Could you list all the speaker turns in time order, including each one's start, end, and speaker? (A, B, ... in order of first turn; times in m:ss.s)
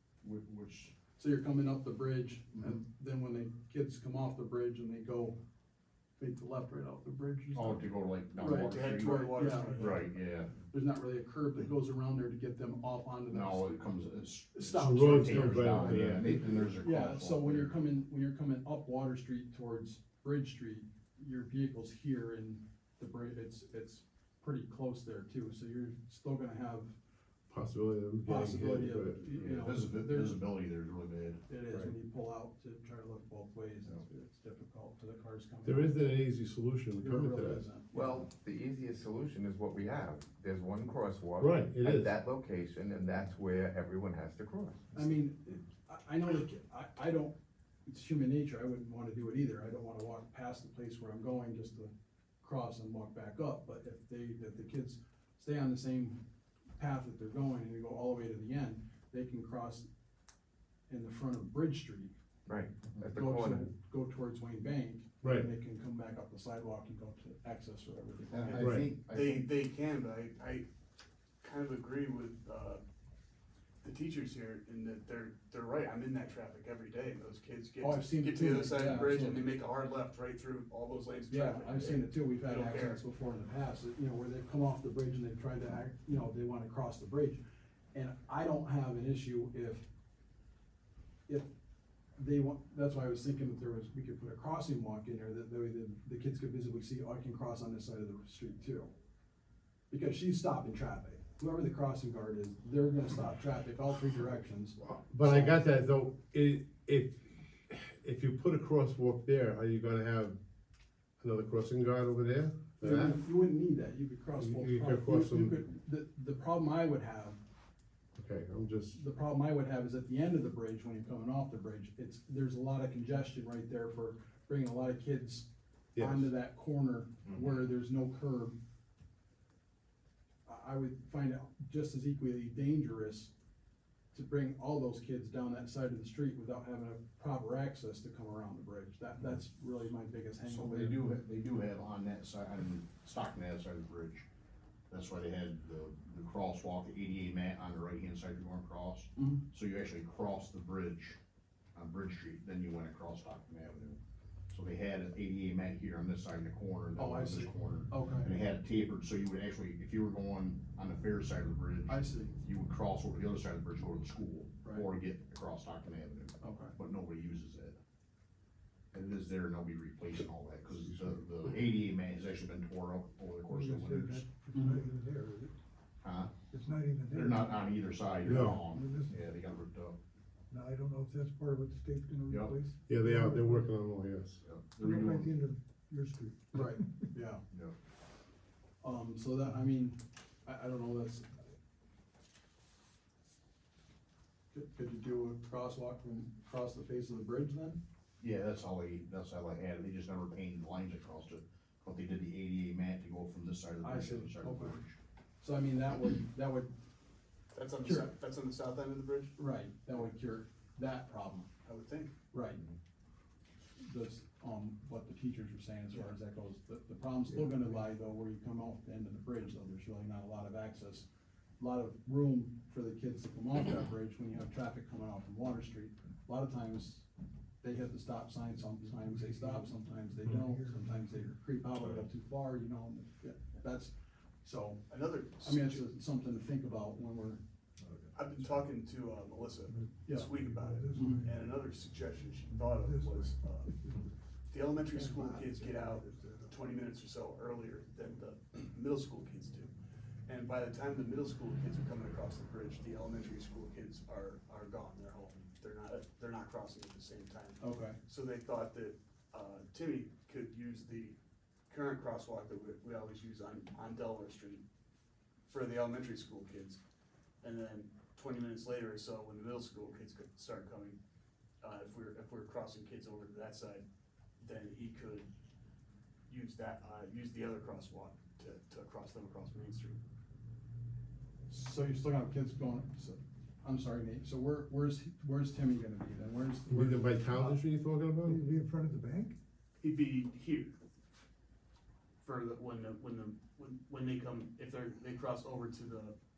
0:00.2-0:01.0 A
0:01.2-0:05.4 B
0:06.2-0:07.9 B
0:07.5-0:10.5 A
0:08.4-0:13.8 B
0:08.4-0:10.1 C
0:13.3-0:17.8 A
0:14.5-0:26.9 B
0:14.8-0:16.7 D
0:27.5-0:29.2 D
0:28.2-0:30.4 B
0:29.3-0:31.4 A
0:31.5-0:36.0 B
0:35.6-0:37.7 D
0:37.0-0:38.2 B
0:37.9-0:44.8 E
0:41.4-0:42.1 D
0:44.9-0:56.2 B
0:56.8-0:59.9 B
1:00.9-1:02.1 B
1:02.5-1:03.7 E
1:03.1-1:08.6 B
1:05.2-1:05.5 D
1:08.3-1:09.5 A
1:08.4-1:10.7 C
1:08.6-1:08.9 D
1:11.4-1:12.8 C
1:13.8-1:23.0 C
1:17.8-1:19.5 B
1:21.3-1:27.4 B
1:27.9-1:29.8 B
1:32.2-1:38.9 B
1:39.9-1:45.6 B
1:44.8-1:50.4 D
1:51.2-1:53.2 D
1:52.8-1:57.4 B
1:54.4-1:55.6 D
1:58.2-1:59.0 D
1:58.9-2:08.5 B
2:06.0-2:06.3 D
2:10.5-2:13.3 B
2:14.1-2:21.0 B
2:20.4-2:24.3 A
2:24.9-2:31.2 A
2:29.2-2:29.4 B
2:31.8-2:34.0 A
2:34.5-2:47.8 A
2:37.0-2:38.3 B
2:41.9-2:42.3 B
2:46.4-2:46.8 B
2:48.9-2:54.3 A
2:53.5-2:55.5 F
2:54.5-2:54.8 B
2:56.0-2:56.5 A
2:56.5-2:57.6 F
2:57.1-3:00.0 A
2:58.2-2:58.7 D
2:58.2-2:59.1 F
3:00.5-3:03.6 F
3:02.9-3:04.4 D
3:04.4-3:05.3 A
3:04.8-3:06.4 F
3:06.5-3:07.4 B
3:07.5-3:07.8 A
3:08.8-3:11.4 B
3:14.5-3:17.8 B
3:18.2-3:25.0 A
3:23.8-3:24.8 B
3:25.4-3:26.7 B
3:27.5-3:29.4 C
3:27.8-3:28.1 B
3:29.4-3:31.5 B
3:31.6-3:32.2 C
3:32.3-3:32.6 B
3:33.8-3:41.1 B
3:41.6-3:47.1 B
3:47.6-3:54.9 B
3:49.1-3:49.6 F
3:50.2-3:50.8 F
3:54.9-3:55.9 C
3:55.4-3:57.4 B
3:57.8-3:58.7 F
3:58.2-4:03.9 C
4:00.0-4:00.3 B
4:00.4-4:01.3 F
4:00.9-4:01.3 B
4:02.6-4:03.3 F
4:04.5-4:09.7 C
4:04.9-4:06.5 F
4:10.3-4:21.2 C
4:17.6-4:18.0 B
4:21.7-4:24.6 C
4:25.5-4:26.8 C
4:27.4-4:31.0 C
4:31.6-4:33.8 C
4:34.4-4:35.3 C
4:36.3-4:40.0 C
4:41.5-4:47.6 B
4:46.7-4:48.4 D
4:48.2-4:49.4 F
4:49.8-4:50.8 C
4:52.2-4:56.2 C